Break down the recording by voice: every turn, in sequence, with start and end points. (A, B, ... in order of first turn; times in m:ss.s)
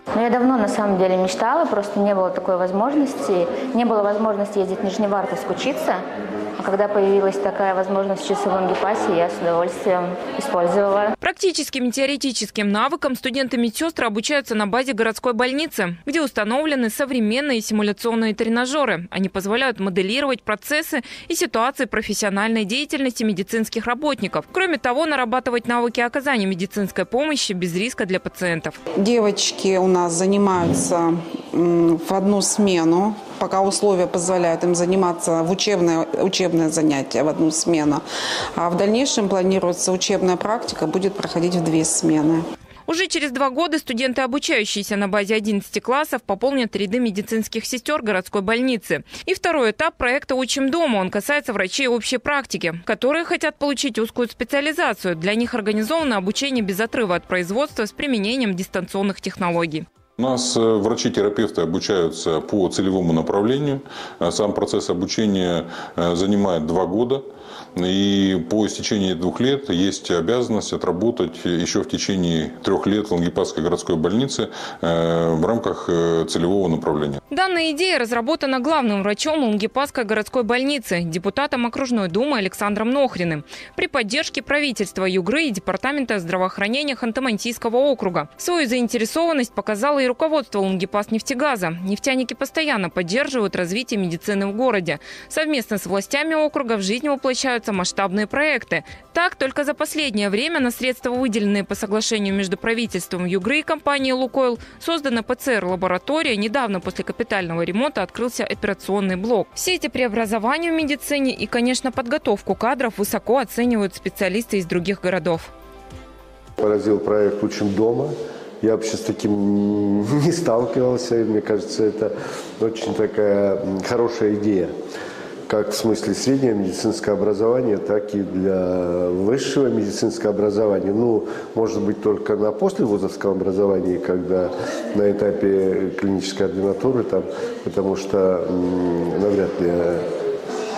0:00.1-0:06.0 A
0:06.6-0:11.1 A
0:11.2-0:28.8 B
0:29.0-0:38.0 C
0:38.6-0:42.4 C
0:42.9-0:59.8 B
1:00.2-1:07.2 D
1:07.8-1:17.2 D
1:17.3-1:55.5 B
1:56.6-2:04.7 E
2:05.5-2:20.1 E